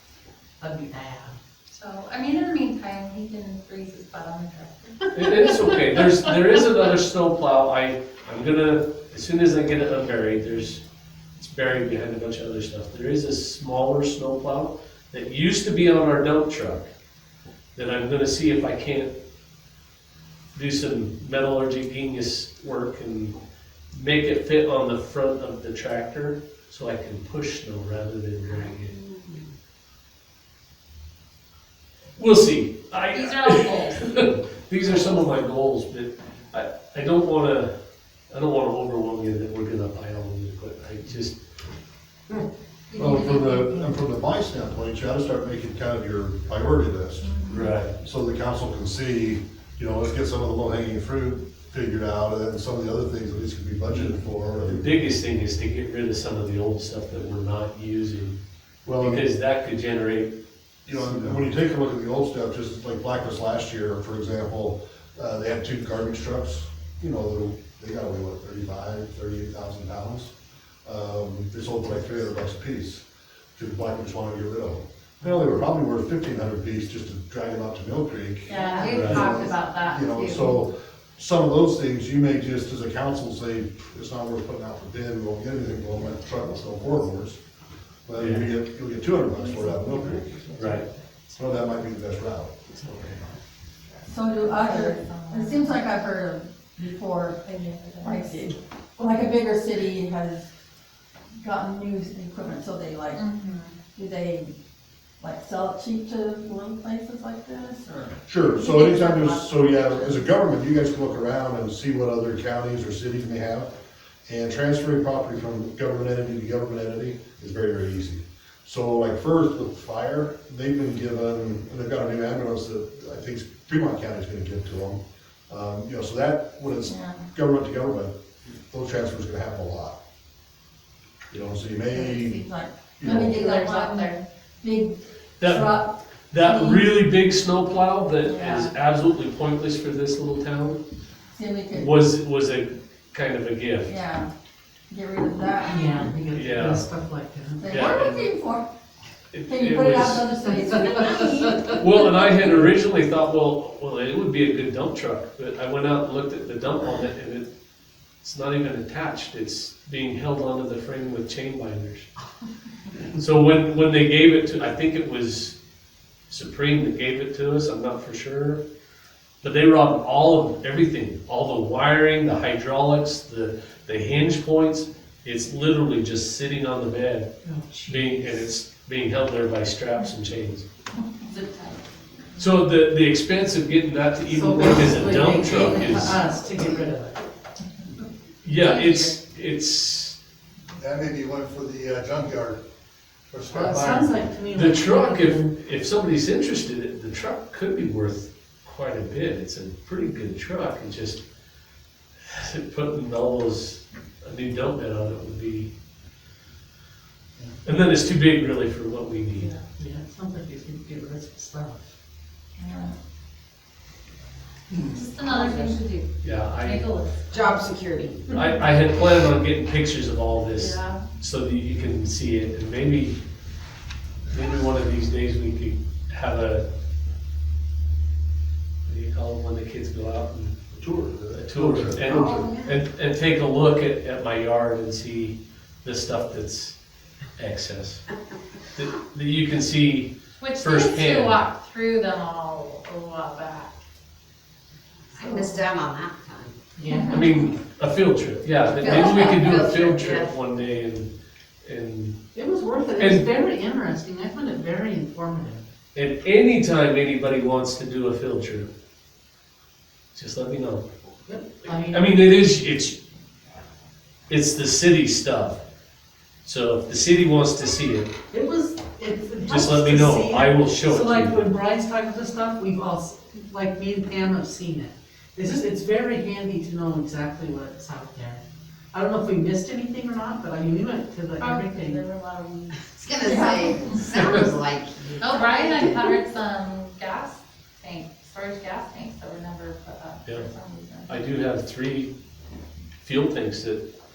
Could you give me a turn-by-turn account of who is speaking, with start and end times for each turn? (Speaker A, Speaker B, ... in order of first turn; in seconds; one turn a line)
Speaker A: 0.6-1.4
Speaker B: 1.7-5.2
Speaker C: 5.1-10.8
Speaker A: 5.3-5.7
Speaker C: 11.4-16.9
Speaker C: 17.8-19.1
Speaker C: 20.6-23.4
Speaker C: 23.9-29.0
Speaker C: 32.2-37.7
Speaker B: 33.1-34.2
Speaker C: 38.3-41.4
Speaker D: 42.9-54.9
Speaker C: 47.5-47.9
Speaker C: 54.6-58.4
Speaker D: 58.9-59.2
Speaker C: 59.0-60.4
Speaker D: 60.9-70.3
Speaker C: 60.9-61.4
Speaker D: 70.8-73.0
Speaker D: 73.6-87.4
Speaker B: 78.5-80.6
Speaker A: 78.6-79.0
Speaker C: 78.8-79.3
Speaker D: 88.1-90.4
Speaker C: 88.2-88.5
Speaker A: 89.9-90.8
Speaker C: 90.5-90.8
Speaker D: 91.3-92.6
Speaker C: 92.8-93.2
Speaker E: 94.1-100.5
Speaker B: 94.3-95.8
Speaker B: 97.5-98.5
Speaker E: 101.4-103.2
Speaker B: 103.2-103.8
Speaker E: 103.9-104.5
Speaker E: 105.2-109.3
Speaker D: 108.2-113.7
Speaker D: 114.3-128.2
Speaker E: 126.8-127.2
Speaker D: 128.7-130.0
Speaker D: 131.3-132.4
Speaker E: 131.9-136.9
Speaker D: 133.0-133.3
Speaker B: 133.0-134.2
Speaker C: 135.4-140.8
Speaker E: 138.2-138.7
Speaker E: 141.3-142.0
Speaker C: 141.8-144.0
Speaker E: 143.8-144.3
Speaker E: 144.9-146.1
Speaker A: 145.7-147.7
Speaker C: 146.3-146.9
Speaker E: 147.6-148.7
Speaker C: 147.7-148.3
Speaker C: 149.3-150.4
Speaker E: 149.5-152.5
Speaker A: 150.4-151.8
Speaker C: 151.7-157.5
Speaker C: 158.2-162.1
Speaker C: 163.1-165.6
Speaker C: 166.3-168.6
Speaker C: 169.4-177.3
Speaker A: 177.4-178.4
Speaker C: 177.9-180.6
Speaker E: 181.3-181.7
Speaker C: 182.4-186.2
Speaker A: 184.3-187.2
Speaker C: 188.4-190.2
Speaker B: 188.5-189.2
Speaker F: 190.8-192.6
Speaker D: 191.8-192.5
Speaker F: 193.3-194.2
Speaker A: 193.5-195.5
Speaker D: 193.8-194.1
Speaker C: 194.5-201.2
Speaker C: 202.2-205.7
Speaker C: 207.6-209.5
Speaker A: 209.8-211.8
Speaker E: 212.6-212.9
Speaker B: 214.9-217.6
Speaker C: 216.2-216.9
Speaker G: 217.3-218.3
Speaker C: 218.3-223.2
Speaker B: 220.5-221.0
Speaker C: 224.3-226.7
Speaker C: 228.8-230.7
Speaker D: 230.8-232.4
Speaker C: 231.3-236.8
Speaker G: 232.1-232.7
Speaker C: 237.3-238.1
Speaker C: 238.8-241.4
Speaker B: 240.4-243.7
Speaker G: 245.1-246.6
Speaker B: 245.2-245.6
Speaker A: 246.8-247.5
Speaker B: 246.9-247.3
Speaker C: 247.1-251.1
Speaker G: 248.8-250.4
Speaker C: 251.6-252.2
Speaker A: 252.3-255.6
Speaker C: 253.0-253.3
Speaker C: 255.9-258.7
Speaker C: 260.1-260.9
Speaker A: 261.3-262.2
Speaker C: 261.6-263.0
Speaker C: 264.3-265.6
Speaker C: 266.4-268.1
Speaker A: 268.3-278.4
Speaker C: 269.5-271.4
Speaker A: 278.9-282.0
Speaker B: 281.4-283.9
Speaker G: 282.9-286.1
Speaker E: 283.2-283.9
Speaker B: 285.2-291.2
Speaker C: 291.1-292.1
Speaker C: 293.0-293.8